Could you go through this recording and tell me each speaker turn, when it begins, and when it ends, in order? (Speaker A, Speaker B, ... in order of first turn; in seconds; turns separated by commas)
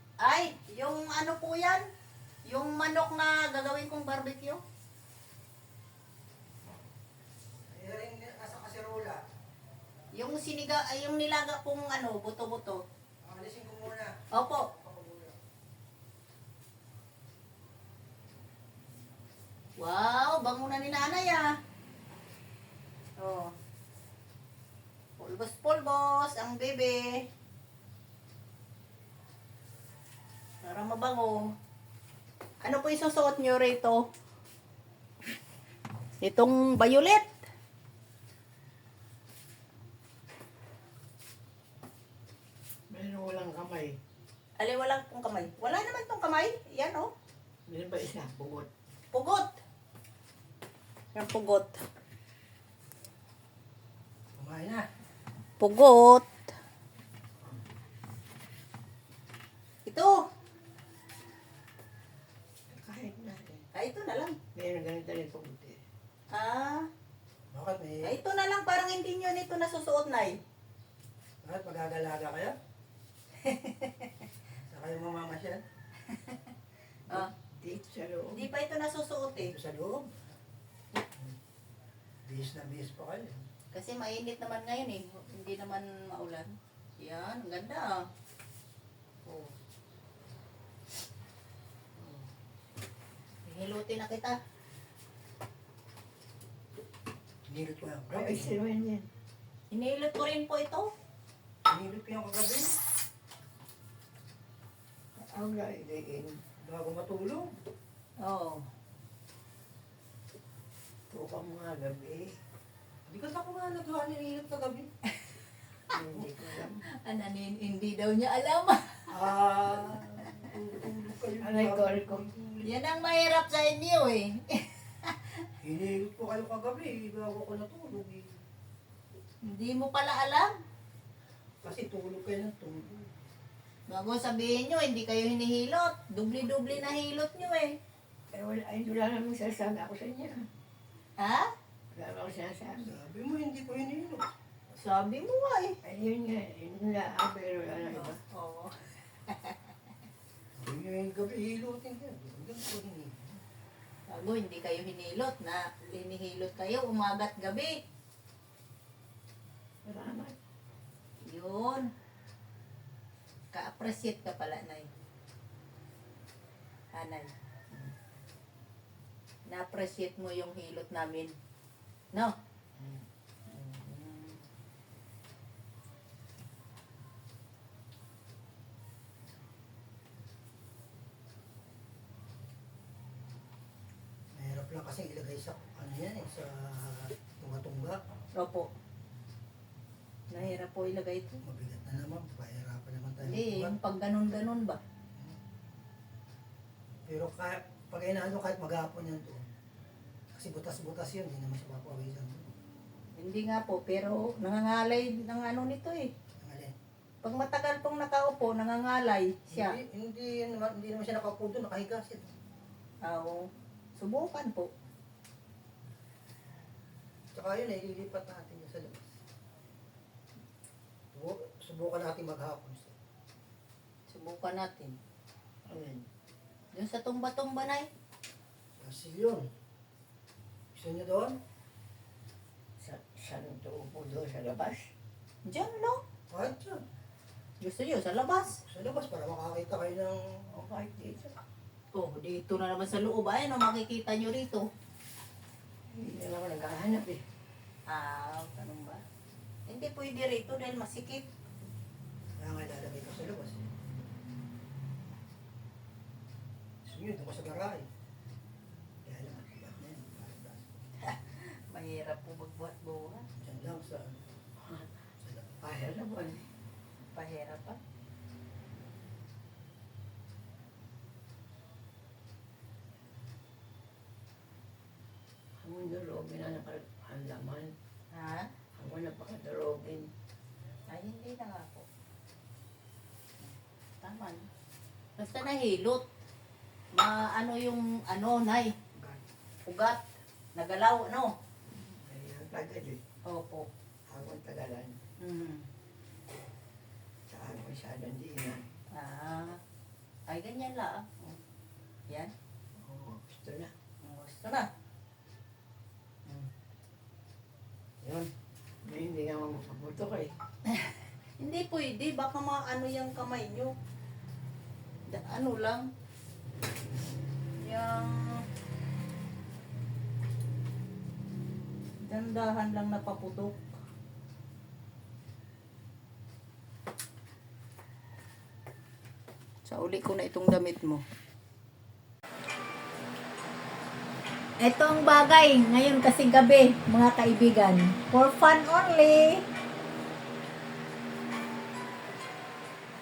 Speaker A: 0.2-1.8, Speaker A: 2.5-4.6, Speaker B: 7.7-9.2, Speaker A: 10.1-12.8, Speaker B: 13.2-15.4, Speaker A: 14.3-14.7, Speaker A: 19.8-21.5, Speaker A: 23.2-23.5, Speaker A: 25.2-27.2, Speaker A: 30.6-31.5, Speaker A: 32.6-34.0, Speaker A: 36.2-37.3, Speaker C: 42.9-44.0, Speaker A: 44.6-47.1, Speaker C: 47.7-48.7, Speaker A: 49.1-49.6, Speaker A: 51.1-51.9, Speaker B: 54.4-54.9, Speaker A: 55.6-56.3, Speaker A: 59.9-60.2, Speaker C: 62.7-63.6, Speaker A: 63.7-64.4, Speaker C: 64.5-65.8, Speaker A: 66.3-66.9, Speaker B: 67.5-68.2, Speaker A: 68.0-70.4, Speaker B: 71.4-72.5, Speaker A: 73.4-74.1, Speaker B: 74.7-75.6, Speaker A: 76.1-76.4, Speaker C: 77.1-78.5, Speaker A: 78.3-79.5, Speaker B: 79.4-80.3, Speaker B: 82.2-83.5, Speaker A: 83.7-88.0, Speaker A: 89.2-89.5, Speaker A: 93.5-94.4, Speaker B: 97.5-98.6, Speaker C: 98.1-99.1, Speaker A: 99.7-100.9, Speaker B: 101.7-102.8, Speaker C: 105.2-106.4, Speaker B: 106.6-107.5, Speaker A: 108.2-108.6, Speaker C: 111.1-112.3, Speaker B: 113.1-114.9, Speaker C: 115.9-116.8, Speaker A: 117.0-119.0, Speaker B: 119.1-122.7, Speaker C: 121.4-122.2, Speaker A: 122.6-125.3, Speaker B: 125.6-128.4, Speaker A: 129.4-130.5, Speaker B: 131.6-133.1, Speaker A: 133.9-137.8, Speaker C: 138.3-140.5, Speaker A: 141.2-141.5, Speaker C: 141.9-143.0, Speaker B: 142.8-144.3, Speaker A: 144.7-145.8, Speaker C: 145.8-148.2, Speaker A: 147.8-149.7, Speaker B: 150.6-153.4, Speaker A: 154.1-157.8, Speaker C: 159.8-160.3, Speaker A: 161.2-161.9, Speaker A: 163.5-164.9, Speaker A: 166.9-167.3, Speaker A: 169.5-171.4, Speaker C: 172.8-174.4, Speaker B: 184.3-188.0, Speaker A: 188.4-188.7, Speaker A: 190.3-191.4, Speaker B: 191.4-193.8, Speaker A: 193.2-194.8, Speaker B: 197.1-199.5, Speaker B: 200.3-202.5, Speaker A: 203.2-206.1, Speaker B: 206.4-206.8, Speaker A: 207.2-209.8, Speaker B: 209.5-212.3, Speaker A: 213.0-214.7, Speaker B: 217.3-219.1, Speaker B: 221.1-222.9, Speaker A: 224.1-225.0, Speaker C: 225.7-226.1, Speaker A: 226.7-227.9, Speaker B: 228.8-229.5, Speaker B: 230.7-231.4, Speaker C: 232.8-234.9, Speaker A: 235.4-236.0, Speaker B: 236.3-236.8, Speaker A: 237.6-238.6, Speaker B: 238.7-240.5, Speaker C: 240.5-241.4, Speaker A: 241.9-244.7, Speaker C: 245.9-247.2, Speaker A: 247.9-249.0, Speaker A: 249.7-251.3, Speaker B: 252.4-253.6, Speaker B: 256.9-257.9, Speaker B: 259.1-260.7, Speaker A: 261.0-263.2, Speaker B: 263.4-264.2, Speaker C: 264.6-264.9, Speaker B: 265.2-265.6, Speaker C: 265.6-266.4, Speaker A: 267.1-267.8, Speaker C: 275.6-277.7, Speaker A: 278.1-278.5, Speaker C: 278.8-280.1, Speaker A: 280.9-281.9, Speaker A: 284.0-284.5, Speaker A: 285.2-286.0, Speaker A: 286.9-288.8, Speaker A: 289.6-290.0, Speaker A: 290.6-291.4, Speaker C: 291.9-293.0, Speaker A: 293.2-293.7, Speaker C: 294.1-295.0, Speaker A: 295.2-295.7, Speaker C: 297.3-298.7, Speaker A: 298.9-299.6, Speaker A: 300.3-301.4, Speaker C: 302.8-303.7, Speaker A: 304.0-304.7, Speaker C: 308.8-310.3, Speaker A: 310.7-313.7, Speaker A: 315.1-315.9, Speaker A: 317.6-318.4, Speaker A: 322.0-323.6, Speaker A: 329.7-331.0, Speaker A: 334.6-339.4